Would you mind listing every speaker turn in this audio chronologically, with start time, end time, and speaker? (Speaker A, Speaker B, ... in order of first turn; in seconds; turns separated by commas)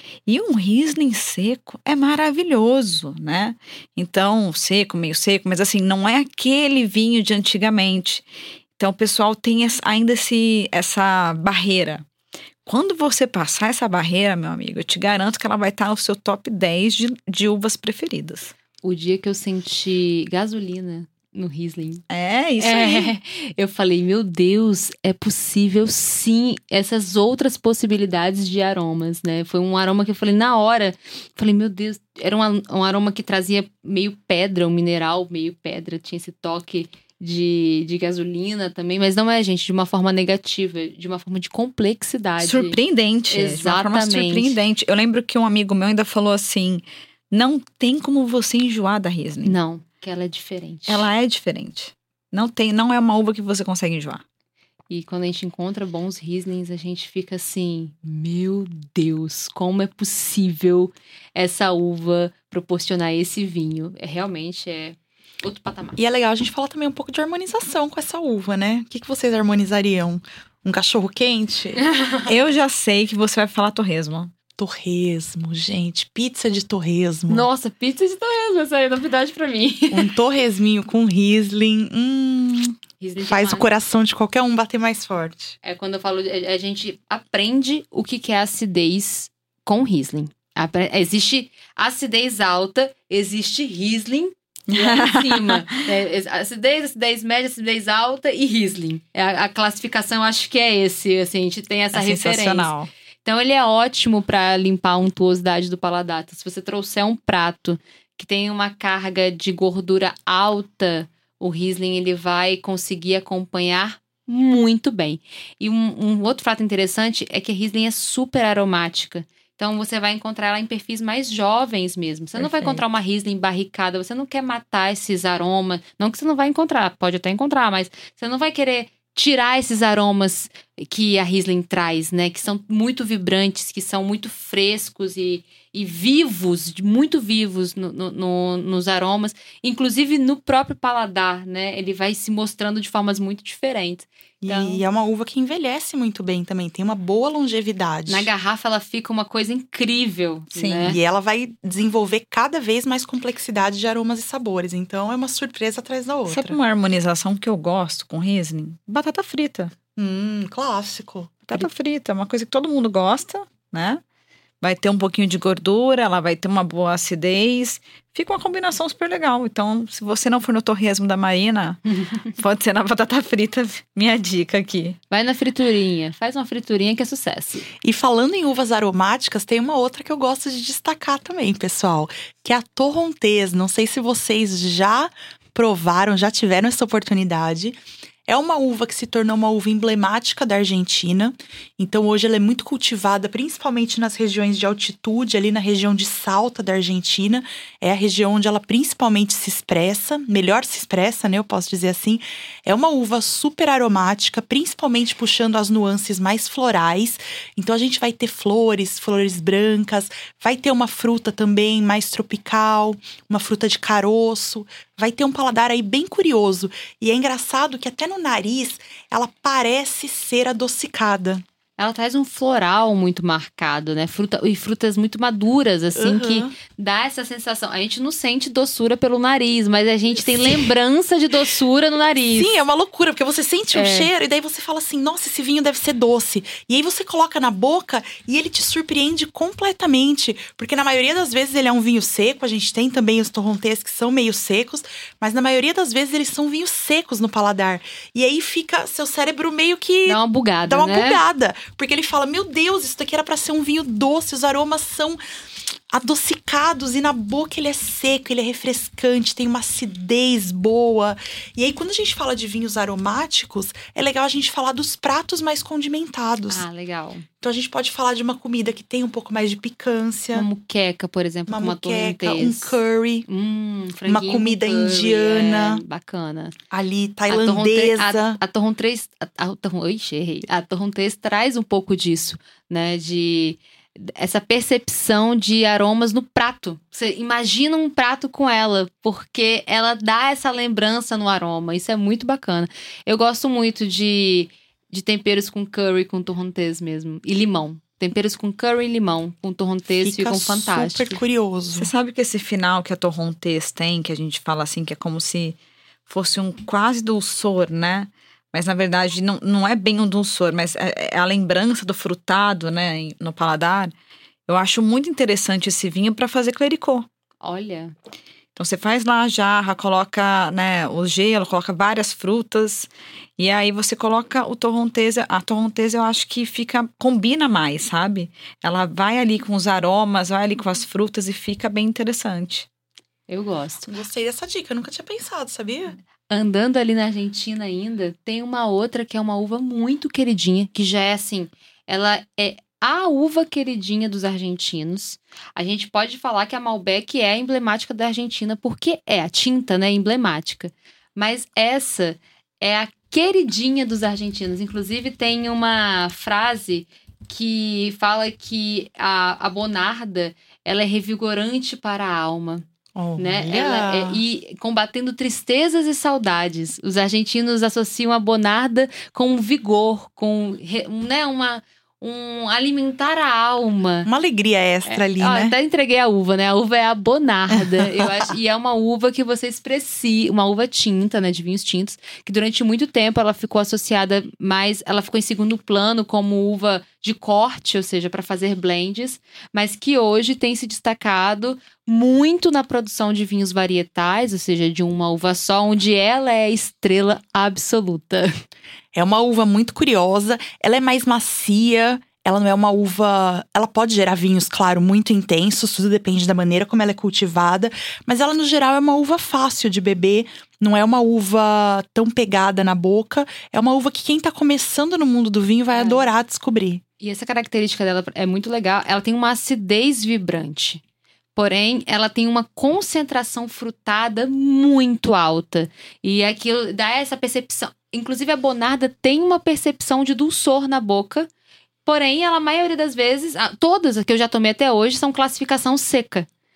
Speaker A: 0.3-8.2, Speaker A: 8.8-12.0, Speaker A: 12.7-18.5, Speaker B: 18.8-22.0, Speaker A: 22.1-23.1, Speaker B: 22.6-44.6, Speaker A: 42.4-49.6, Speaker B: 49.4-51.1, Speaker A: 50.9-54.2, Speaker B: 54.9-66.0, Speaker C: 66.0-71.8, Speaker B: 71.8-72.3, Speaker A: 72.3-74.3, Speaker C: 74.6-77.5, Speaker B: 77.3-80.1, Speaker C: 79.9-85.5, Speaker B: 83.0-83.7, Speaker B: 85.6-102.7, Speaker A: 94.7-95.8, Speaker A: 101.9-102.9, Speaker B: 103.2-144.8, Speaker A: 122.4-122.8, Speaker C: 144.4-148.3, Speaker B: 148.1-151.0, Speaker A: 150.5-151.0, Speaker C: 150.8-156.6, Speaker A: 156.3-159.7, Speaker C: 159.9-161.7, Speaker A: 161.5-164.0, Speaker A: 164.6-171.8, Speaker A: 172.3-175.0, Speaker B: 175.1-177.7, Speaker C: 177.8-221.4, Speaker B: 221.8-232.6, Speaker C: 225.9-226.5, Speaker C: 230.2-230.7, Speaker C: 232.3-255.2, Speaker B: 233.7-234.1, Speaker B: 250.0-251.2, Speaker C: 255.9-266.6, Speaker B: 266.5-267.2, Speaker C: 267.4-270.5, Speaker B: 270.3-276.5, Speaker C: 271.5-273.2, Speaker C: 274.1-275.8, Speaker C: 276.7-278.4, Speaker B: 277.3-301.2, Speaker C: 300.0-301.9, Speaker A: 301.7-313.9, Speaker A: 314.5-317.1, Speaker B: 317.4-317.9, Speaker A: 318.5-332.7, Speaker B: 333.3-333.9, Speaker C: 333.8-336.0, Speaker B: 336.3-362.6, Speaker C: 362.9-364.2, Speaker B: 363.1-374.1, Speaker C: 374.1-375.6, Speaker B: 374.9-398.3, Speaker C: 398.9-416.8, Speaker B: 415.7-416.1, Speaker B: 417.0-420.8, Speaker B: 421.3-431.3, Speaker B: 431.8-436.3